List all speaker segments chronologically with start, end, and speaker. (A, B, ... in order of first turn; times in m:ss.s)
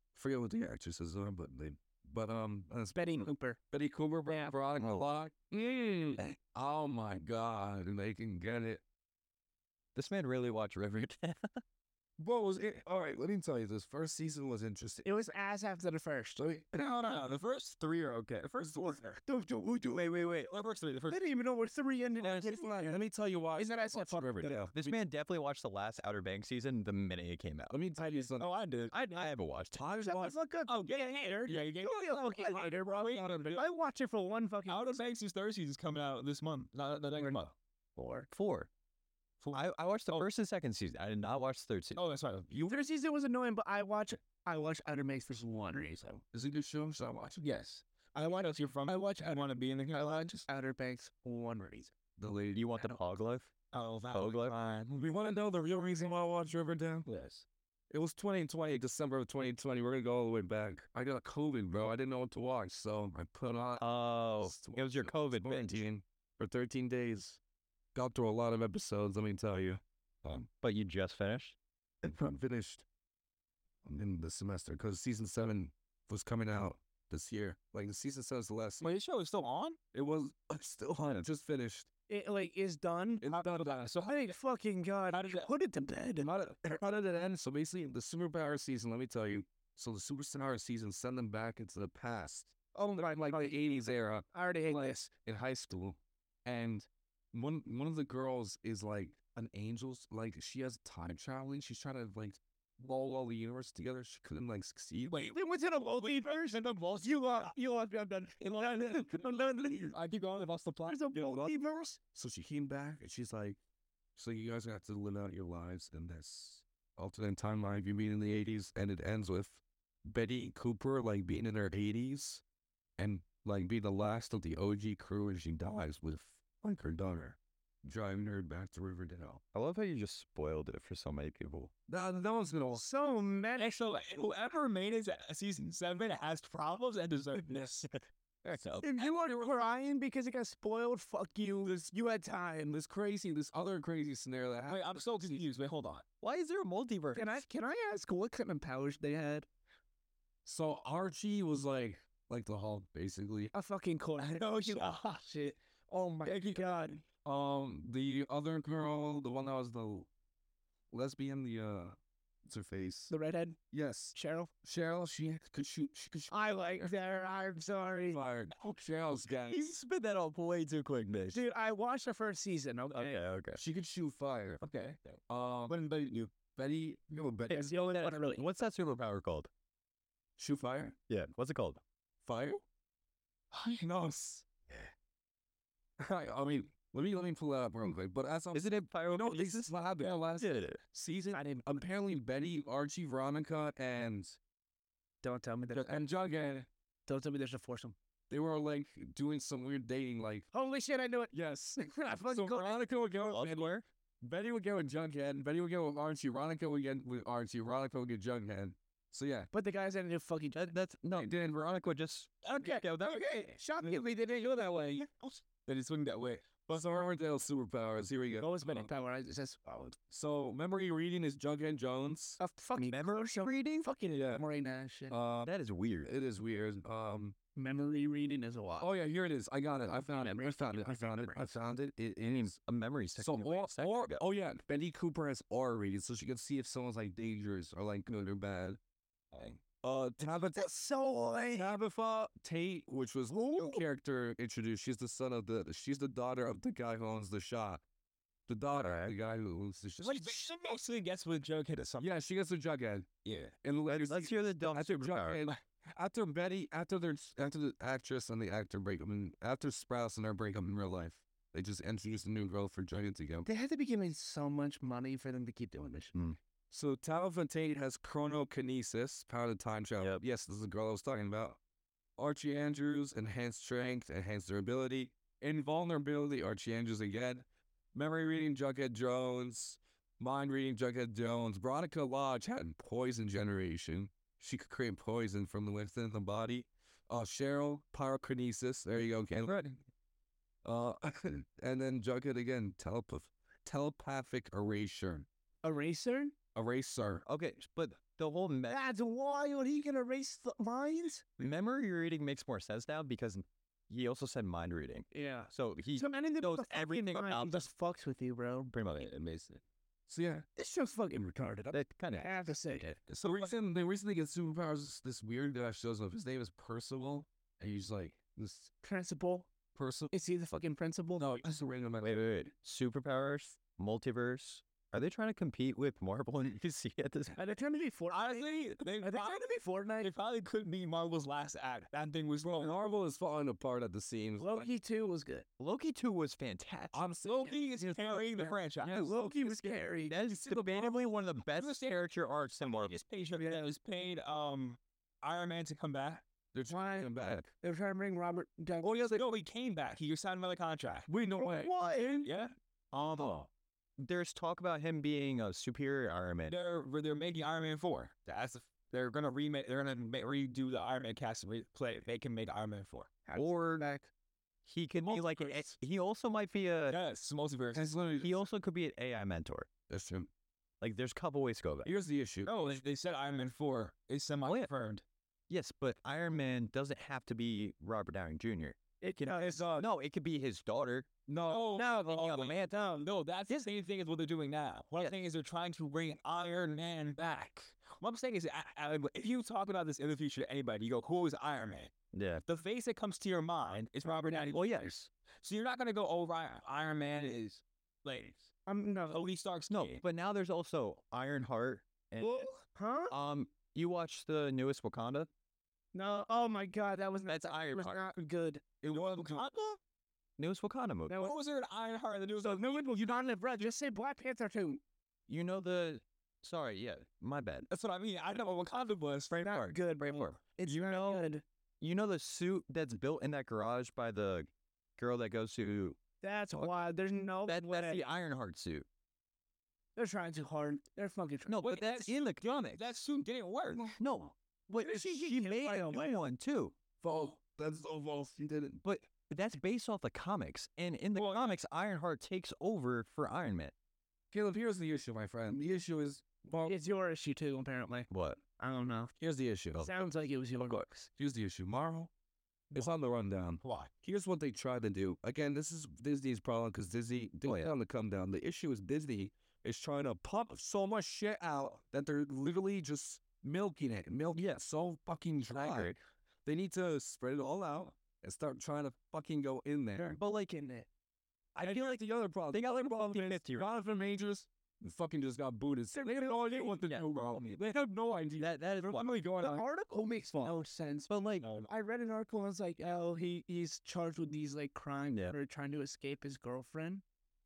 0:00.1-0:03.1 A
0:02.9-0:03.6 B
0:03.7-0:08.8 A
0:04.3-0:04.5 B
0:09.9-0:11.6 C
0:12.2-0:15.0 A
0:15.0-0:16.4 B
0:16.4-0:16.7 A
0:16.7-0:21.2 D
0:21.1-0:22.6 B
0:22.2-0:24.9 A
0:23.6-0:24.6 B
0:24.7-0:27.7 C
0:27.7-0:28.4 A
0:28.0-0:28.9 D
0:28.9-0:29.8 C
0:29.8-0:30.3 A
0:30.0-0:30.9 B
0:30.7-0:33.6 D
0:31.4-0:35.0 B
0:34.7-0:37.5 D
0:38.0-0:38.3 B
0:38.3-0:38.7 C
0:39.4-0:40.2 D
0:39.5-0:42.0 C
0:41.9-0:42.6 D
0:42.5-0:46.2 B
0:46.3-0:47.4 A
0:47.4-0:50.4 D
0:48.9-0:49.4 B
0:50.5-0:51.9 B
0:52.2-0:52.9 A
0:52.5-0:53.5 C
0:53.7-0:55.0 D
0:54.1-0:54.5 C
0:54.9-0:57.1 A
0:57.1-0:57.4 D
0:57.9-1:03.8 A
1:03.8-1:05.8 C
1:04.4-1:07.4 A
1:07.9-1:10.5 A
1:10.5-1:11.6 C
1:12.0-1:12.8 A
1:13.8-1:18.8 A
1:18.8-1:19.8 D
1:19.9-1:21.9 A
1:22.1-1:23.4 B
1:23.2-1:24.0 A
1:24.0-1:26.3 B
1:25.1-1:25.5 D
1:26.2-1:34.2 A
1:32.7-1:33.5 B
1:34.3-1:35.1 B
1:35.2-1:45.2 A
1:45.1-1:49.9 B
1:49.9-1:51.0 D
1:50.9-1:52.0 B
1:51.1-1:51.5 A
1:52.1-1:53.6 A
1:54.2-2:02.4 A
2:03.0-2:09.4 A
2:09.5-2:11.7 C
2:11.9-2:12.8 A
2:12.7-2:13.7 B
2:13.6-2:17.9 D
2:18.5-2:18.8 C
2:18.8-2:22.7 B
2:22.7-2:24.8 A
2:24.7-2:26.0 D
2:26.2-2:27.4 C
2:27.1-2:29.5 B
2:30.4-2:33.5 A
2:33.5-2:37.0 B
2:34.2-2:35.2 D
2:36.3-2:36.6 D
2:37.2-2:40.1 A
2:40.9-2:43.1 A
2:43.1-2:43.6 B
2:43.7-2:46.3 A
2:44.1-2:44.5 B
2:46.3-2:48.2 B
2:48.1-2:49.6 A
2:49.5-2:51.4 C
2:51.3-2:53.2 B
2:52.9-2:53.6 C
2:53.5-2:54.6 A
2:54.6-2:55.1 D
2:55.3-2:57.6 A
2:55.7-2:56.3 D
2:57.5-2:58.4 B
2:57.9-2:59.5 C
3:00.4-3:00.9 A
3:01.1-3:01.8 C
3:02.2-3:02.6 A
3:03.8-3:04.5 A
3:06.0-3:14.4 A
3:08.5-3:09.7 C
3:10.4-3:10.8 C
3:11.3-3:11.8 B
3:15.2-3:15.8 B
3:15.7-3:16.7 A
3:17.1-3:17.9 B
3:18.3-3:20.5 A
3:20.5-3:22.7 B
3:21.3-3:29.5 A
3:23.2-3:23.8 C
3:29.5-3:30.7 B
3:30.5-3:33.2 C
3:31.1-3:31.6 A
3:32.6-3:35.4 B
3:32.7-3:33.2 D
3:35.6-3:36.7 D
3:36.7-3:38.9 A
3:38.4-3:39.9 B
3:40.1-3:42.4 A
3:42.4-3:45.1 B
3:42.8-3:43.9 C
3:44.1-3:44.4 A
3:45.1-3:45.5 A
3:45.4-3:46.1 C
3:46.0-3:47.3 A
3:47.5-3:48.9 B
3:48.8-3:52.5 A
3:50.2-3:51.4 B
3:52.2-3:54.2 C
3:53.2-3:58.8 A
3:59.8-4:00.7 A
4:00.5-4:01.7 B
4:01.5-4:07.8 A
4:03.4-4:03.8 B
4:08.5-4:10.4 A
4:10.0-4:12.1 D
4:12.0-4:23.5 A
4:13.9-4:15.4 C
4:23.4-4:26.1 B
4:26.7-4:31.6 A
4:32.2-4:49.8 A
4:50.6-4:55.2 A
4:55.6-4:56.3 B
4:56.5-4:57.2 A
4:57.2-4:58.8 C
4:58.7-5:01.3 B
5:01.4-5:07.6 C
5:05.1-5:08.7 B
5:08.7-5:09.1 C
5:09.1-5:10.4 A
5:10.6-5:13.0 B
5:11.7-5:12.3 C
5:13.1-5:18.7 A
5:18.8-5:19.5 B
5:19.7-5:20.1 A
5:20.1-5:21.2 B
5:21.2-5:22.2 A
5:22.0-5:27.4 C
5:27.3-5:28.4 B
5:28.1-5:29.4 D
5:29.0-5:30.1 B
5:30.0-5:32.7 D
5:32.5-5:34.7 A
5:34.4-5:35.4 B
5:35.6-5:37.0 C
5:36.9-5:37.5 A
5:37.2-5:39.1 D
5:38.8-5:39.7 A
5:39.0-5:40.2 B
5:40.1-5:43.0 C
5:41.5-5:41.9 D
5:42.6-5:46.2 D
5:46.5-5:47.5 A
5:46.7-5:47.1 B
5:47.6-5:48.9 B
5:48.8-5:51.1 D
5:51.1-5:52.3 A
5:51.6-5:52.0 B
5:52.2-5:52.5 D
5:52.9-5:56.5 C
5:56.5-6:03.2 D
6:03.3-6:04.1 B
6:03.3-6:03.8 C
6:04.6-6:07.0 C
6:05.0-6:05.6 D
6:06.9-6:07.9 D
6:07.7-6:08.4 A
6:08.2-6:09.7 C
6:09.9-6:10.3 A
6:10.8-6:11.9 C
6:11.8-6:12.5 A
6:12.4-6:15.0 D
6:15.5-6:22.6 C
6:19.0-6:19.7 B
6:19.2-6:19.8 D
6:21.4-6:31.9 D
6:32.1-6:32.4 C
6:32.4-6:38.5 D
6:38.7-6:39.2 B
6:39.1-6:40.0 D
6:39.7-6:42.5 C
6:42.2-6:43.1 B
6:43.1-6:45.3 C
6:45.9-6:48.6 B
6:47.3-6:48.0 C
6:48.8-6:49.8 D
6:50.4-6:51.2 C
6:51.1-6:51.4 B
6:51.1-6:52.8 D
6:52.4-6:54.8 B
6:55.3-6:57.7 C
6:57.7-6:59.8 D
6:59.4-7:01.4 B
7:00.6-7:01.2 C
7:01.8-7:06.0 C
7:06.2-7:08.0 B
7:07.5-7:08.8 C
7:10.0-7:11.6 B
7:11.5-7:13.0 C
7:11.6-7:13.9 D
7:13.9-7:16.7 C
7:14.8-7:16.0 B
7:17.0-7:18.8 A
7:18.8-7:23.7 C
7:24.3-7:26.7 A
7:26.6-7:29.1 B
7:28.1-7:28.4 C
7:29.2-7:29.9 A
7:29.8-7:31.1 B
7:31.1-7:32.1 A
7:32.7-7:50.2 A
7:37.4-7:37.7 C
7:45.5-7:45.9 C
7:50.2-7:50.8 B
7:51.6-7:51.9 C
7:51.6-7:58.4 A
7:52.5-7:53.6 C
7:55.9-7:56.7 B
7:58.4-7:59.1 C
7:58.9-7:59.6 D
7:59.4-8:07.0 B
8:01.1-8:01.4 C